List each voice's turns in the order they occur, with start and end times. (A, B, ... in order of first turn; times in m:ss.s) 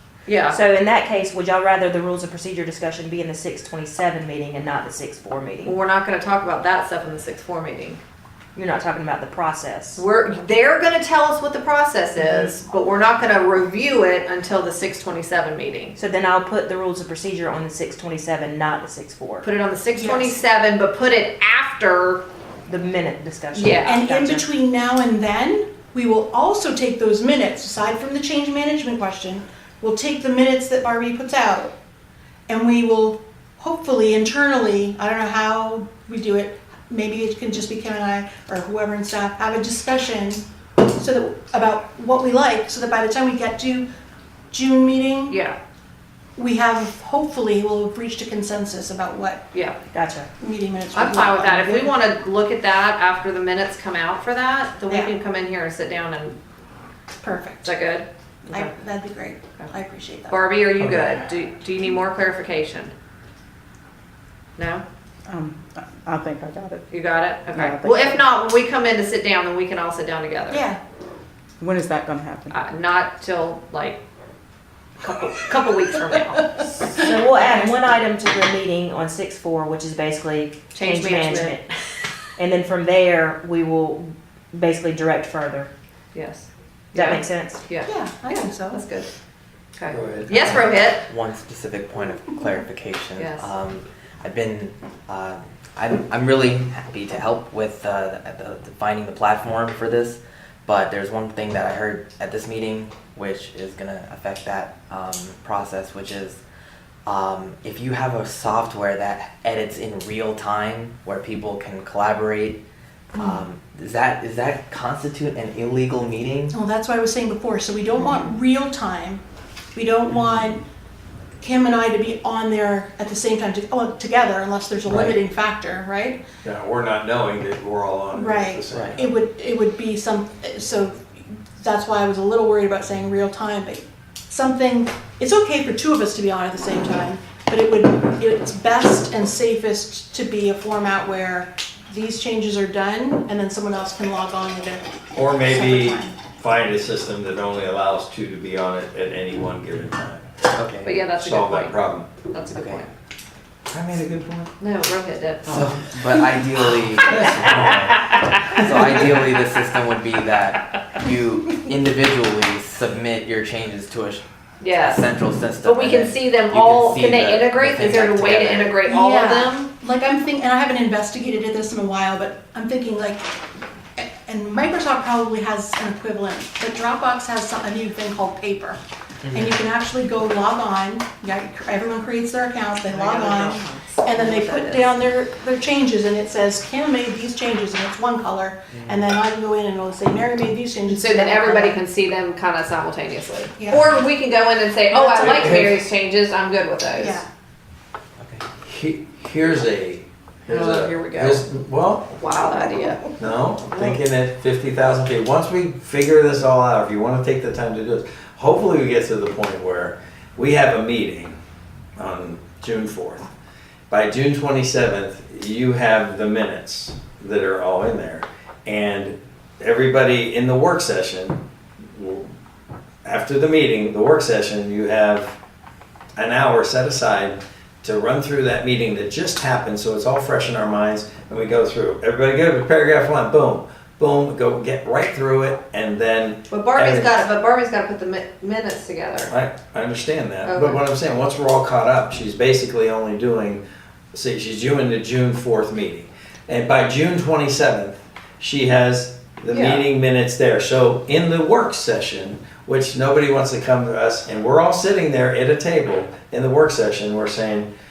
0:00.3-0:00.6 A
0:00.5-0:05.8 B
0:05.6-0:08.0 A
0:08.6-0:10.0 B
0:10.0-0:16.0 A
0:12.2-0:12.5 B
0:16.0-0:19.5 B
0:19.4-0:22.2 A
0:20.0-0:20.4 C
0:22.7-0:24.5 B
0:23.6-0:23.9 A
0:23.8-0:31.7 C
0:32.5-0:43.8 C
0:44.5-0:45.4 C
0:45.3-0:45.6 A
0:46.4-0:49.4 C
0:49.9-0:50.3 B
0:50.4-0:52.0 C
0:50.9-0:56.4 A
0:57.2-0:57.7 C
0:57.6-0:58.7 A
0:58.5-1:00.4 C
1:00.3-1:02.9 A
1:00.8-1:01.2 D
1:04.6-1:04.8 A
1:05.3-1:06.8 E
1:06.9-1:10.7 A
1:07.5-1:08.2 E
1:10.5-1:10.8 C
1:11.6-1:12.6 E
1:12.5-1:14.0 A
1:15.0-1:17.0 A
1:16.8-1:21.6 B
1:20.7-1:21.6 A
1:22.4-1:25.7 B
1:26.1-1:29.1 A
1:26.9-1:27.6 B
1:27.9-1:28.8 C
1:29.8-1:31.0 A
1:29.9-1:30.5 D
1:30.4-1:46.4 F
1:33.2-1:33.5 A
1:47.1-1:52.6 F
1:53.1-1:56.6 F
1:53.2-1:53.4 C
1:56.5-1:59.2 C
1:59.8-2:00.6 C
2:00.1-2:00.5 F
2:01.4-2:06.2 C
2:04.9-2:05.2 F
2:06.4-2:09.1 D
2:08.1-2:26.2 C
2:08.7-2:09.0 F
2:25.2-2:30.4 D
2:30.6-2:31.0 F
2:30.8-2:31.8 A
2:31.1-2:32.1 D
2:32.3-2:32.9 A
2:32.5-2:32.8 F
2:33.7-2:34.5 D
2:34.6-2:35.6 A
2:35.5-2:44.2 F
2:37.1-2:38.6 D
2:44.6-2:45.0 A
2:44.8-2:48.7 F
2:45.6-2:49.6 A
2:48.8-2:53.3 C
2:54.0-2:58.8 C
2:59.2-2:59.6 F
2:59.3-3:11.8 C
3:02.9-3:04.9 A
3:08.7-3:09.1 F
3:10.9-3:17.2 A
3:13.6-3:13.9 C
3:14.9-3:15.5 C
3:15.2-3:15.8 D
3:17.0-3:17.3 C
3:18.2-3:18.4 F
3:18.6-3:22.2 D
3:20.5-3:21.4 A
3:22.2-3:23.1 A
3:23.2-3:31.4 D
3:23.7-3:24.0 A
3:32.0-3:33.3 D
3:33.9-3:41.4 D
3:42.0-3:42.3 D
3:43.0-3:45.4 D
3:46.2-3:57.2 D
3:56.5-3:59.3 A
3:59.3-4:03.6 D
4:00.4-4:00.8 A
4:04.1-4:17.7 D
4:09.5-4:09.9 A